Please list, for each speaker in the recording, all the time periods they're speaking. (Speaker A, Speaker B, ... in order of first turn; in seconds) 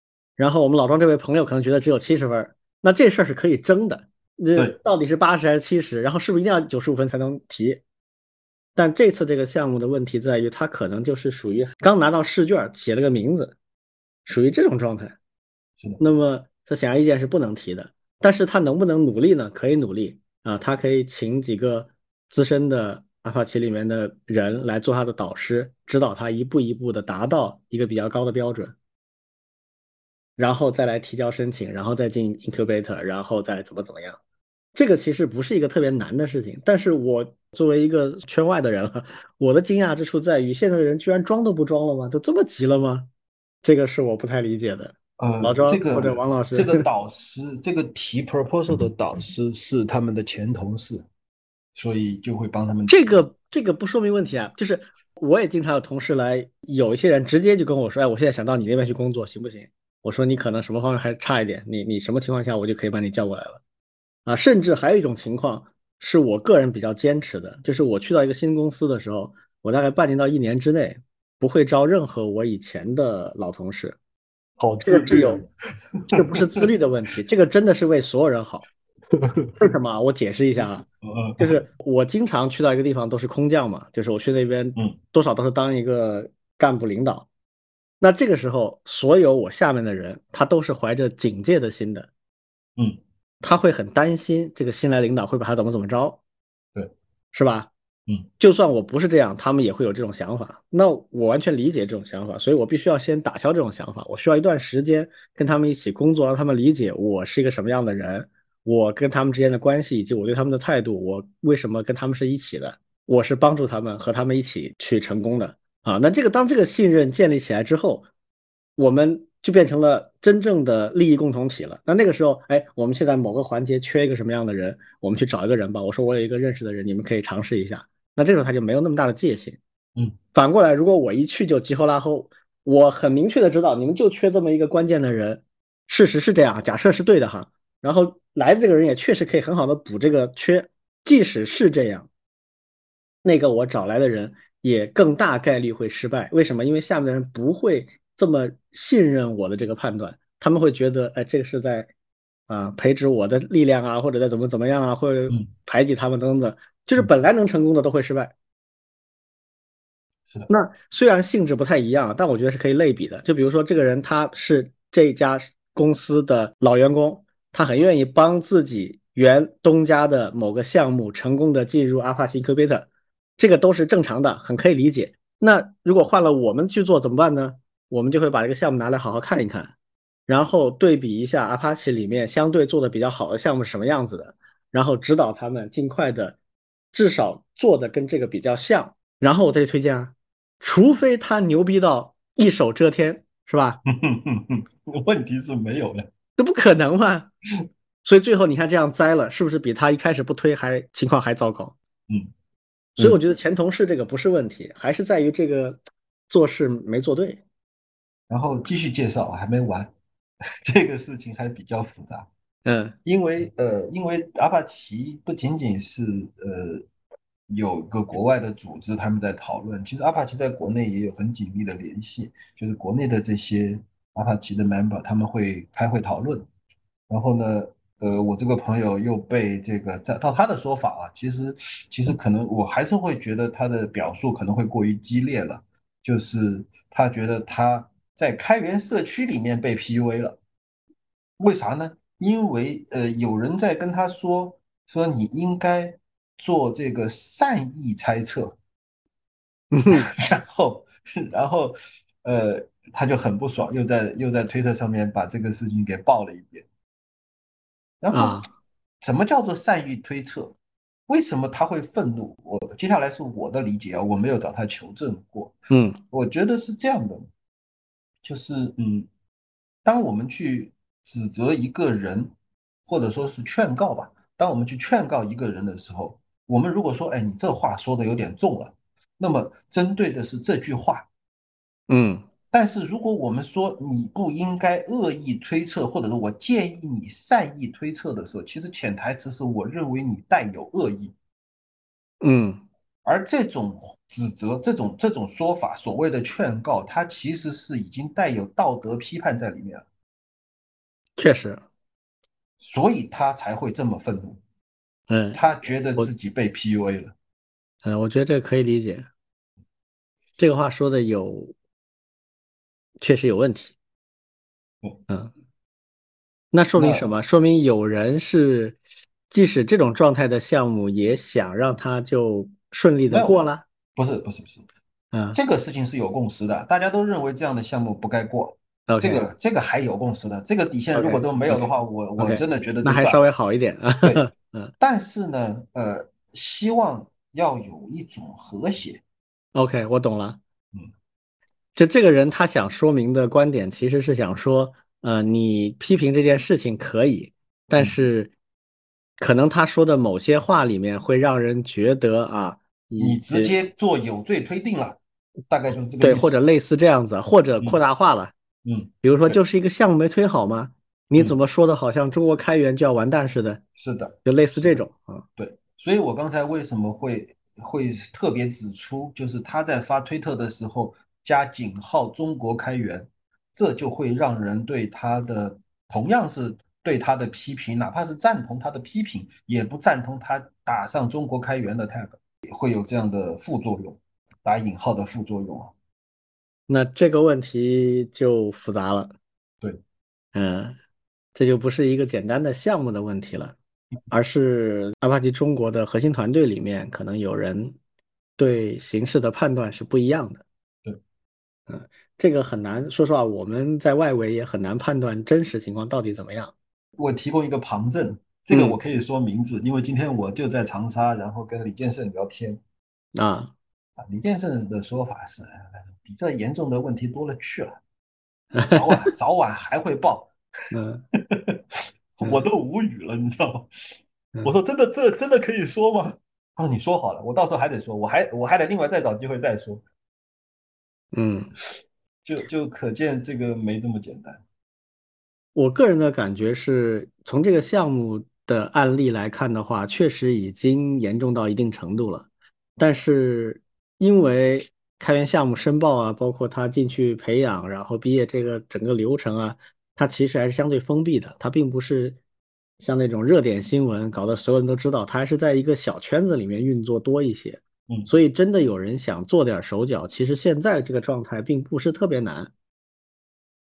Speaker A: 0.4-7.8, 8.8-13.6, 14.3-15.2, 16.0-28.8, 30.4-34.2, 34.8-43.1, 43.6-46.9, 52.9-63.6, 64.3-74.0, 74.8-75.4, 76.1-78.7, 79.6-80.9, 81.4-87.3, 88.0-92.1, 93.4-96.2, 97.3-97.7, 98.4-118.1, 118.8-129.6, 130.3-142.1, 143.2-151.9, 152.5-158.3, 160.5-179.7, 180.3-186.4, 186.9-193.8, 196.4-197.3, 198.0-201.8, 203.0-207.4, 212.7-212.9, 249.7-250.1, 258.1-258.5, 265.7-266.0, 281.9-282.3, 292.2-292.6, 301.2-301.6, 305.1-305.4, 307.8-309.1, 310.4-311.5, 313.0-313.8, 316.5-318.8, 319.3-323.6, 325.1-325.4, 328.9-329.2, 330.9-334.7, 339.6-340.4, 341.8-348.3, 349.2-353.6, 356.0-358.3, 359.0-363.6, 364.2-365.3, 386.7-389.1, 390.3-390.8, 391.4-393.6, 394.1-397.8, 398.4-400.4, 401.7-406.5, 408.5-408.8, 413.1-413.5, 418.5-418.9, 420.7-421.0, 431.1-431.5, 435.6-452.2, 452.8-462.5
Speaker B: 45.2-51.1, 51.8-53.2, 74.6-75.5, 76.1-76.7, 79.2-79.5, 81.0-81.6, 193.9-196.1, 208.3-209.9, 210.7-212.3, 213.1-216.8, 217.5-226.5, 227.1-240.4, 241.4-248.6, 249.9-256.7, 258.0-258.4, 259.0-260.6, 261.1-265.6, 266.1-267.3, 268.2-269.1, 269.9-272.3, 272.9-281.1, 282.5-291.1, 293.1-299.9, 302.6-304.4, 305.3-307.1, 316.8-317.0, 323.1-324.7, 325.3-333.2, 334.8-339.0, 353.0-355.0, 355.5-356.4, 358.6-359.4, 363.8-364.8, 365.4-385.7, 407.0-412.6, 414.0-417.8, 418.6-420.3, 421.3-429.8, 432.2-434.4